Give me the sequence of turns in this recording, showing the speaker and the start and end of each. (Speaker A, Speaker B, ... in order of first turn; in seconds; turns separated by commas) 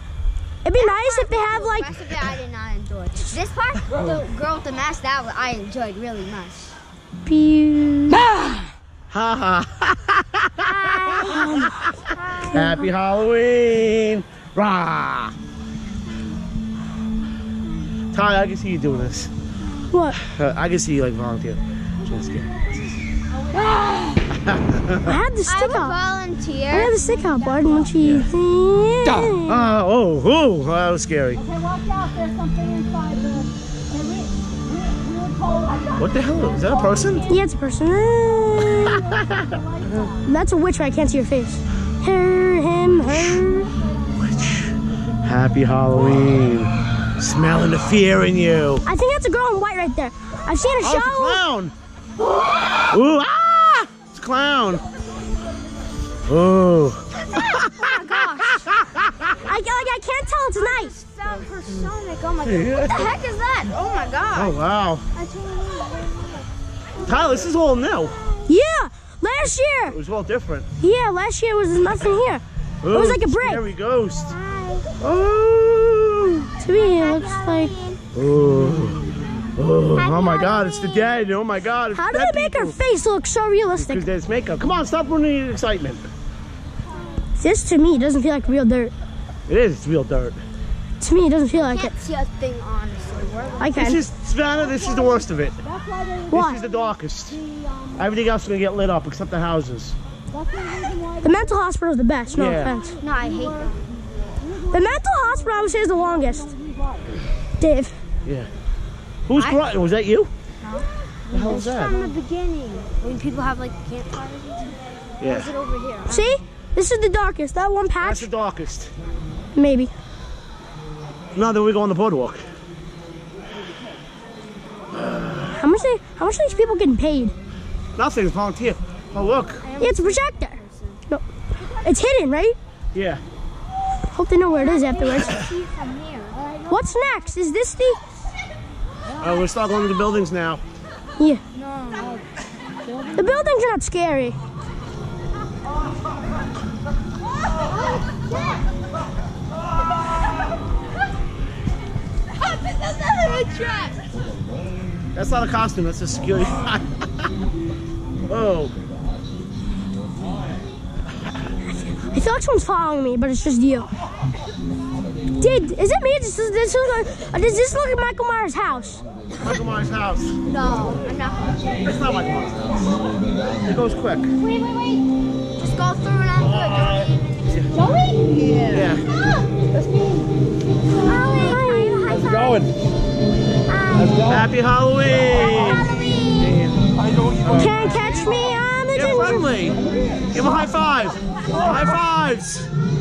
Speaker A: 0.6-1.9, Speaker B: 0.7-6.8, Speaker A: 7.3-8.3, Speaker C: 9.1-12.0, Speaker B: 10.6-12.7, Speaker A: 11.3-11.8, Speaker C: 12.5-15.3, Speaker C: 18.1-19.3, Speaker A: 19.9-20.2, Speaker C: 20.1-23.0, Speaker D: 23.3-24.2, Speaker C: 24.4-25.1, Speaker A: 25.1-26.0, Speaker B: 25.5-27.1, Speaker A: 26.7-29.7, Speaker D: 27.4-27.9, Speaker C: 29.2-31.4, Speaker D: 31.4-37.4, Speaker C: 36.0-37.3, Speaker A: 37.3-38.9, Speaker C: 38.8-39.5, Speaker D: 38.9-40.3, Speaker A: 40.2-43.7, Speaker C: 43.0-43.4, Speaker C: 44.2-48.8, Speaker A: 48.9-51.4, Speaker C: 50.8-51.7, Speaker C: 52.9-54.8, Speaker C: 56.3-59.5, Speaker B: 57.3-58.7, Speaker A: 59.5-60.9, Speaker B: 60.6-64.6, Speaker C: 62.4-63.1, Speaker C: 64.3-65.0, Speaker B: 65.2-66.4, Speaker B: 67.0-67.4, Speaker C: 67.0-68.2, Speaker A: 68.5-70.0, Speaker C: 69.9-70.7, Speaker A: 70.8-73.6, Speaker C: 72.8-74.4, Speaker B: 74.3-74.9, Speaker C: 75.0-76.5, Speaker A: 76.6-77.7, Speaker B: 76.7-78.0, Speaker C: 78.1-82.8, Speaker B: 80.0-81.3, Speaker A: 81.9-84.0, Speaker C: 83.8-86.1, Speaker A: 87.4-88.9, Speaker C: 89.5-90.4, Speaker A: 91.0-91.9, Speaker B: 91.5-93.9, Speaker A: 93.6-94.0, Speaker C: 93.8-95.6, Speaker D: 94.6-98.2, Speaker A: 96.3-96.6, Speaker C: 96.3-97.4, Speaker C: 98.0-100.0, Speaker D: 100.3-101.6, Speaker A: 101.2-103.0, Speaker C: 102.3-102.7, Speaker D: 102.3-103.8, Speaker B: 103.0-103.8, Speaker D: 104.4-107.2, Speaker A: 104.7-106.5, Speaker A: 107.6-108.0, Speaker C: 109.3-110.3, Speaker B: 109.3-109.6, Speaker B: 110.6-116.3, Speaker C: 111.3-112.0, Speaker C: 115.2-115.5, Speaker A: 116.1-118.3, Speaker C: 118.0-118.9, Speaker A: 119.6-119.9, Speaker C: 121.3-122.5, Speaker C: 124.9-125.7, Speaker A: 125.6-127.3, Speaker C: 128.0-129.7, Speaker B: 129.6-131.0, Speaker A: 129.8-131.2, Speaker A: 131.8-132.6, Speaker C: 132.9-133.2, Speaker A: 134.1-135.4, Speaker B: 134.6-136.4, Speaker D: 136.3-137.0, Speaker A: 136.7-138.0, Speaker C: 139.2-140.6, Speaker B: 141.6-142.2, Speaker D: 141.9-142.2, Speaker D: 142.8-143.3, Speaker A: 143.2-144.4, Speaker B: 147.7-148.7, Speaker B: 152.4-154.0, Speaker C: 155.2-157.3, Speaker C: 158.3-158.7, Speaker A: 161.9-163.9, Speaker A: 165.4-169.0, Speaker C: 169.4-170.3, Speaker B: 170.5-171.8, Speaker C: 171.8-173.0, Speaker C: 173.6-174.3, Speaker B: 174.4-175.0, Speaker B: 175.6-177.1, Speaker C: 176.4-177.7, Speaker D: 177.8-178.3, Speaker B: 178.2-179.5, Speaker C: 178.7-179.0, Speaker D: 179.7-180.2, Speaker B: 181.0-182.7, Speaker A: 181.2-182.2, Speaker C: 182.1-182.7, Speaker B: 183.7-184.4, Speaker C: 184.2-188.0, Speaker B: 185.3-186.6, Speaker A: 187.5-189.5, Speaker C: 188.9-189.8, Speaker C: 190.3-192.7